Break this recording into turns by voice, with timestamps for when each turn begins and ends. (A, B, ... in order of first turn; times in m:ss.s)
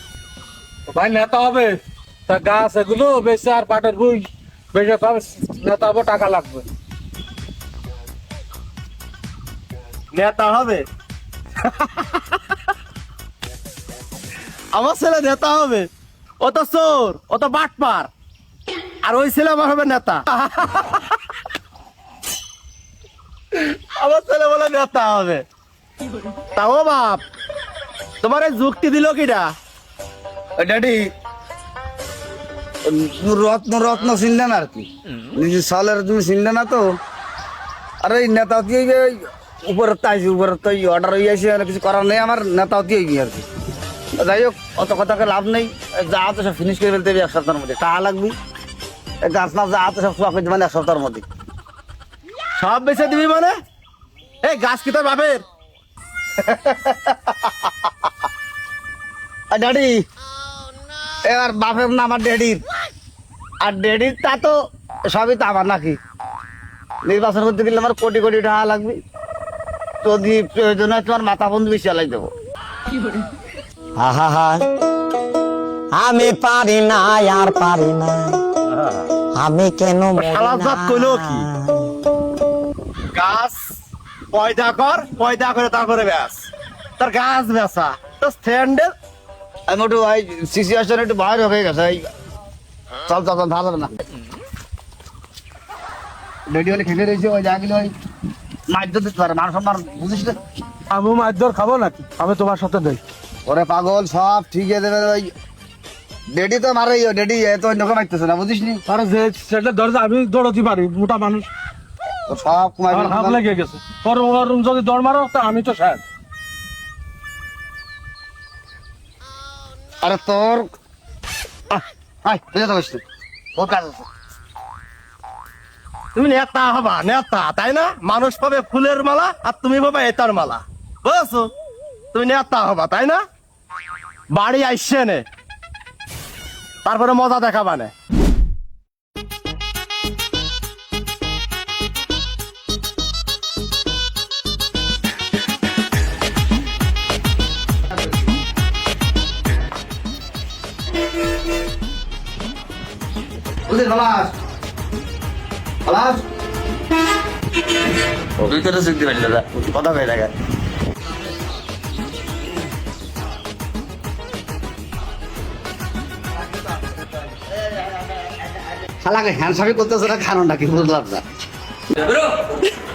0:00.9-0:06.6 A
0:10.1-0:10.9 B
0:14.7-0:15.9 B
0:16.4-0:18.1 B
0:19.0-0:21.0 B
0:24.0-0:25.4 B
0:26.6-0:27.2 B
0:28.2-0:29.5 B
0:30.6-0:31.1 C
0:32.8-0:37.0 C
0:38.0-0:43.5 C
0:44.2-0:48.4 C
0:49.2-0:51.2 C
0:52.6-0:53.5 B
0:54.4-0:55.4 B
0:56.4-0:57.7 C
0:59.5-1:00.0 C
1:01.3-1:02.6 C
1:03.6-1:04.6 C
1:05.1-1:06.0 C
1:07.0-1:09.0 C
1:10.0-1:12.3 C
1:14.0-1:14.6 D
1:16.0-1:18.4 D
1:19.3-1:21.9 D
1:20.2-1:21.5 B
1:23.1-1:23.6 B
1:24.3-1:26.4 B
1:27.0-1:28.9 B
1:29.7-1:32.1 C
1:33.1-1:33.9 C
1:36.5-1:37.9 C
1:38.7-1:40.4 C
1:40.9-1:43.0 A
1:43.5-1:45.3 C
1:46.3-1:48.8 C
1:48.9-1:51.5 A
1:52.3-1:53.4 C
1:52.9-1:56.0 A
2:00.0-2:00.7 C
2:01.7-2:03.0 C
2:03.6-2:04.0 C
2:06.2-2:11.5 B
2:12.1-2:13.2 B
2:14.3-2:15.2 B
2:16.8-2:17.9 B
2:33.7-2:34.4 C
2:35.8-2:36.2 C
2:38.4-2:40.3 C
2:49.0-2:51.2 C